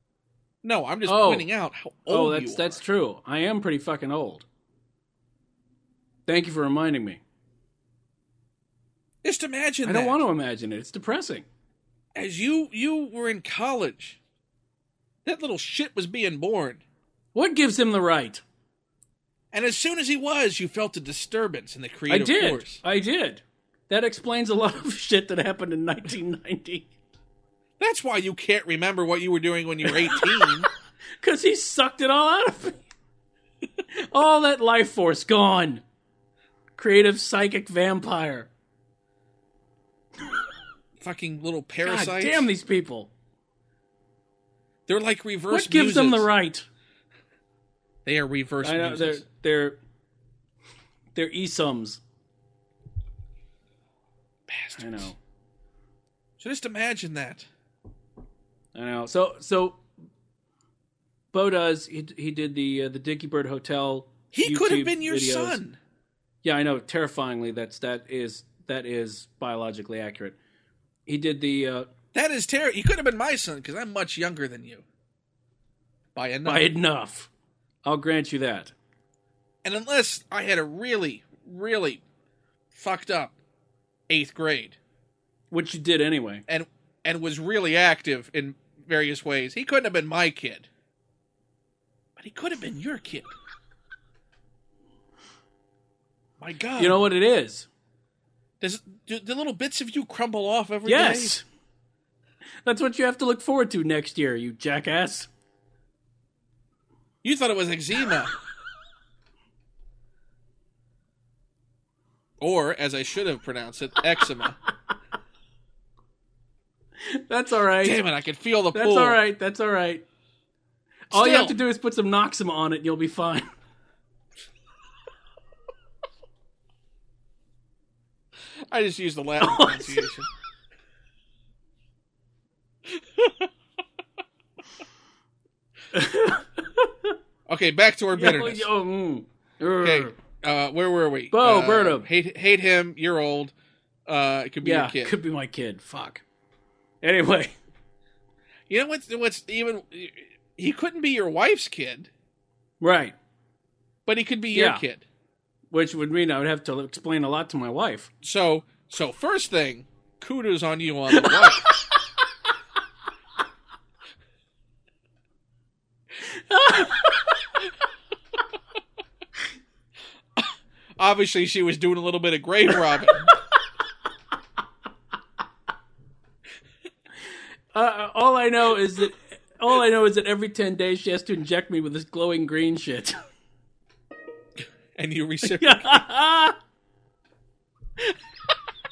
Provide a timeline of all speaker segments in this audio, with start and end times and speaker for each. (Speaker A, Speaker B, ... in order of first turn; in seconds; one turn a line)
Speaker A: 0.6-2.8
Speaker B: 1.1-1.5
Speaker B: 2.1-4.5
Speaker B: 6.3-7.2
Speaker A: 9.2-10.2
Speaker B: 9.8-11.5
Speaker A: 12.2-14.2
Speaker A: 15.2-16.8
Speaker B: 17.3-18.4
Speaker A: 19.5-22.8
Speaker B: 22.1-26.9
Speaker A: 27.8-30.7
Speaker B: 29.9-30.5
Speaker B: 31.2-32.8
Speaker B: 33.9-35.8
Speaker B: 36.8-38.5
Speaker A: 41.0-42.5
Speaker B: 41.8-43.1
Speaker A: 44.9-46.3
Speaker B: 45.5-46.7
Speaker A: 48.0-49.2
Speaker B: 48.6-49.8
Speaker B: 51.1-52.0
Speaker A: 54.5-55.1
Speaker B: 54.8-55.2
Speaker A: 56.4-57.5
Speaker B: 58.8-59.8
Speaker B: 61.3-65.6
Speaker A: 64.3-65.8
Speaker B: 66.4-70.4
Speaker B: 71.1-71.9
Speaker A: 72.1-74.8
Speaker A: 76.2-76.7
Speaker B: 76.5-77.3
Speaker B: 77.8-78.7
Speaker A: 79.6-82.0
Speaker A: 82.7-83.4
Speaker A: 84.1-84.8
Speaker B: 85.5-86.5
Speaker A: 86.5-90.7
Speaker A: 92.2-93.3
Speaker A: 96.4-97.0
Speaker B: 96.8-97.7
Speaker A: 98.6-101.4
Speaker B: 100.8-101.5
Speaker B: 102.7-105.3
Speaker A: 107.2-108.3
Speaker A: 112.4-114.6
Speaker B: 117.0-118.0
Speaker A: 117.8-119.2
Speaker B: 118.7-120.0
Speaker B: 121.1-123.5
Speaker A: 121.1-121.6
Speaker A: 128.7-130.3
Speaker B: 129.4-130.1
Speaker A: 133.0-133.5
Speaker B: 135.9-137.2
Speaker A: 137.5-138.7
Speaker B: 138.1-140.2
Speaker A: 139.8-143.5
Speaker B: 141.3-142.1
Speaker A: 144.1-145.2
Speaker B: 144.6-146.2
Speaker B: 147.0-147.6
Speaker A: 148.7-152.1
Speaker B: 152.8-153.2
Speaker A: 154.1-155.1
Speaker B: 154.5-154.8
Speaker B: 155.7-158.1
Speaker A: 158.2-161.7
Speaker B: 166.3-167.3
Speaker A: 170.4-173.3
Speaker B: 177.7-183.2
Speaker A: 185.0-186.0
Speaker B: 185.4-186.6